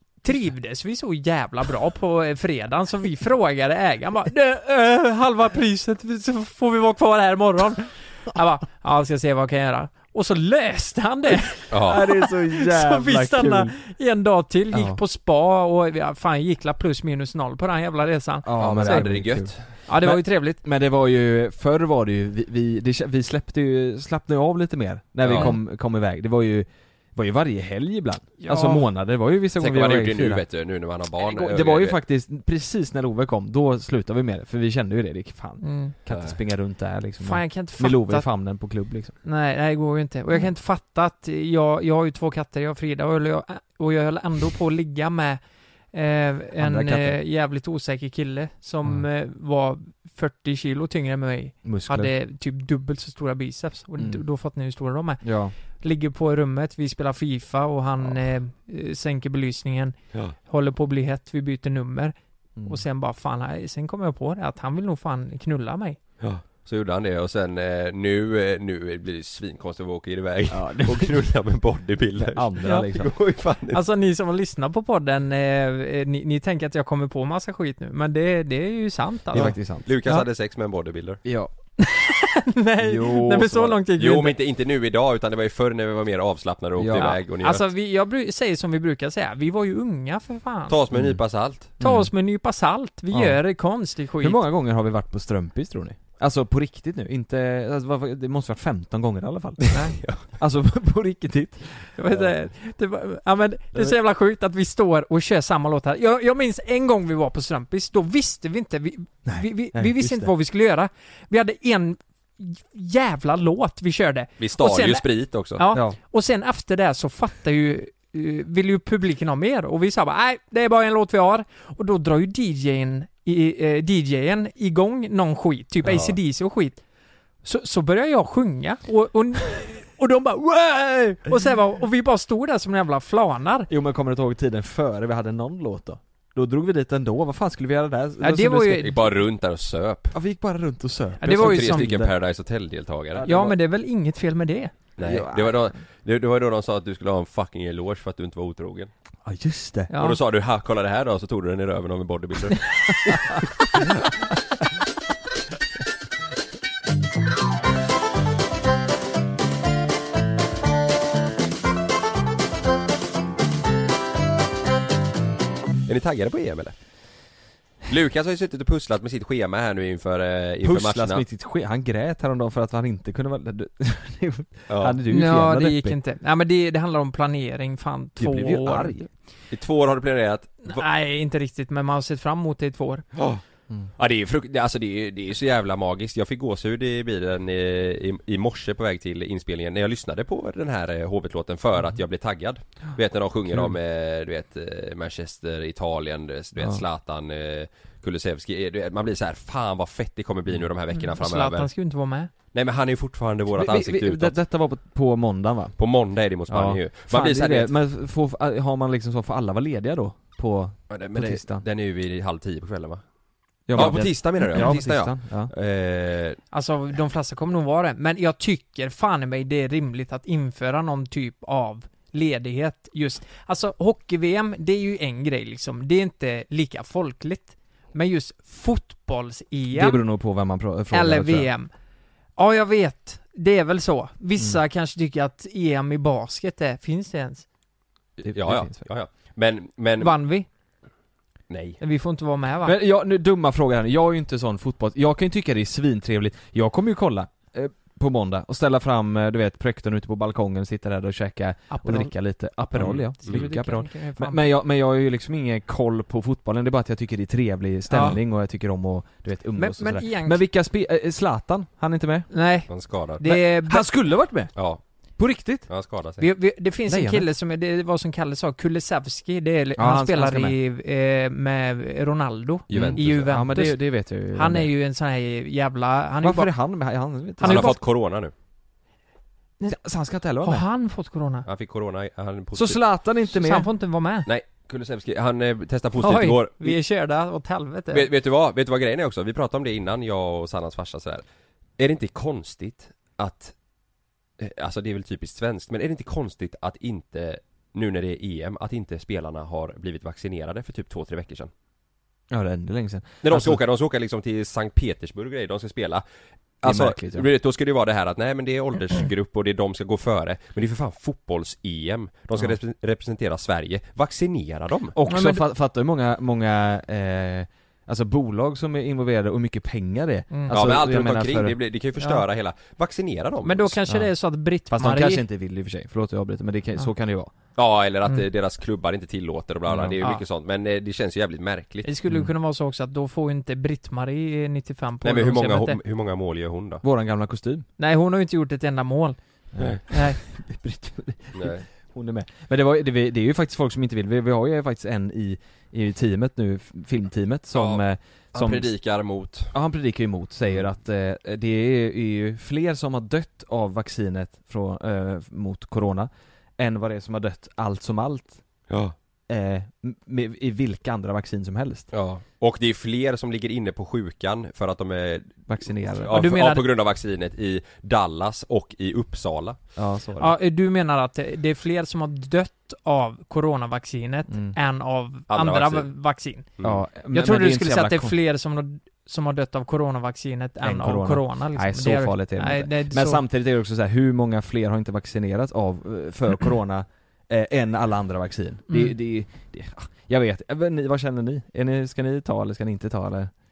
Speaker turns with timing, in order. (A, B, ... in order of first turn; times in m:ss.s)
0:00.2-0:19.1 A
0:11.7-0:12.0 B
0:11.9-0:13.7 C
0:14.7-0:15.0 C
0:18.4-0:30.4 C
0:18.6-0:19.6 B
0:19.9-0:20.6 A
0:25.2-0:25.5 B
0:28.4-0:28.8 A
0:29.6-0:32.0 B
0:31.2-0:39.2 C
0:35.6-0:36.0 A
0:36.1-0:36.4 B
0:37.2-0:38.3 A
0:39.2-0:45.4 A
0:45.9-1:06.0 A
0:46.6-0:47.2 C
0:51.6-0:52.1 C
0:54.0-0:54.2 C
0:55.2-0:55.5 C
1:02.6-1:02.8 C
1:06.2-1:13.8 B
1:10.5-1:11.2 C
1:12.2-1:13.1 C
1:12.6-1:12.9 A
1:13.7-1:20.2 A
1:19.3-1:19.9 C
1:19.3-1:21.2 B
1:21.2-1:21.5 C
1:21.8-1:24.4 A
1:22.8-1:23.8 C
1:24.0-1:27.7 B
1:26.8-1:27.2 C
1:26.9-1:30.8 A
1:30.7-1:31.7 B
1:30.9-1:32.1 C
1:31.8-1:34.4 A
1:33.1-1:33.4 C
1:34.2-1:41.9 C
1:39.7-1:40.0 A
1:40.0-1:40.2 B
1:42.0-2:06.8 A
1:49.3-1:50.3 C
1:54.4-1:55.6 B
1:55.7-1:56.0 C
2:05.8-2:06.2 B
2:07.4-2:13.7 A
2:13.7-2:19.1 C
2:18.2-2:19.1 A
2:18.8-2:20.2 B
2:20.1-2:22.1 C
2:21.2-2:22.0 A
2:21.3-2:23.2 B
2:23.2-2:23.6 C
2:23.2-2:24.7 A
2:25.0-2:28.9 B
2:25.0-2:25.7 C
2:29.2-2:29.9 C
2:29.9-2:30.2 A
2:30.0-2:32.6 B
2:45.9-2:46.8 B
2:47.9-2:51.2 B
2:50.6-2:56.0 C
2:54.7-2:55.0 B
2:55.1-2:59.0 A
2:58.2-2:59.1 C
2:59.5-3:00.8 B
3:00.6-3:03.1 A
3:03.2-3:03.4 B
3:04.0-3:21.7 B
3:16.6-3:16.8 C
3:20.9-3:22.3 A
3:22.5-3:24.4 B
3:23.5-3:25.8 C
3:25.8-3:27.7 B
3:26.5-3:31.6 C
3:30.9-3:33.0 B
3:33.7-3:35.5 C
3:33.7-3:36.4 B
3:36.5-3:50.0 A
3:49.7-3:51.5 C
3:50.9-3:51.7 A
3:52.4-3:57.5 A
3:58.2-3:58.9 C
3:58.2-4:00.1 B
4:00.0-4:00.5 A
4:01.5-4:01.8 B
4:01.8-4:02.8 A
4:02.6-4:22.3 C
4:11.7-4:12.1 A
4:12.8-4:13.5 B
4:12.8-4:14.4 A
4:17.9-4:18.2 A
4:19.6-4:20.4 A
4:22.3-4:23.9 A
4:22.7-4:23.2 B
4:23.2-4:25.7 C
4:24.6-4:24.8 B
4:25.7-4:26.3 B
4:26.2-4:36.6 A
4:26.9-4:27.3 C
4:29.8-4:30.6 C
4:32.7-4:33.3 B
4:32.7-4:34.7 C
4:36.2-4:37.8 C
4:37.4-4:37.8 A
4:37.4-4:38.3 B
4:39.6-4:40.6 C
4:40.4-4:41.5 A
4:41.5-4:42.8 B
4:42.5-4:43.7 C
4:43.3-4:44.3 A
4:44.3-4:46.8 B
4:46.0-4:48.1 A
4:47.9-4:51.2 B
4:51.8-4:53.6 B
4:54.4-5:01.5 B
5:02.3-5:03.6 C
5:03.2-5:06.0 B
5:06.6-5:15.0 B
5:06.6-5:07.3 C
5:14.9-5:21.6 C
5:15.1-5:15.4 A
5:20.5-5:23.8 B
5:22.0-5:22.2 A
5:23.4-5:25.2 A
5:24.7-5:27.3 C
5:27.6-5:31.9 B
5:29.7-5:30.0 C
5:31.8-5:35.8 A
5:35.0-5:36.8 B
5:36.8-5:37.7 C
5:37.8-5:39.2 A
5:39.5-5:48.7 C
5:39.9-5:40.2 A
5:41.3-5:41.6 B
5:47.5-5:49.5 B
5:49.5-5:58.4 C
5:58.7-5:59.0 B
5:59.3-6:01.9 C
6:01.9-6:09.6 B
6:05.5-6:06.2 C
6:06.1-6:06.7 A
6:09.8-6:10.4 C
6:10.2-6:16.5 A
6:14.3-6:14.6 C
6:15.3-6:15.9 B
6:16.6-6:18.1 C
6:17.1-6:23.2 A
6:20.6-6:33.3 C
6:28.7-6:29.0 A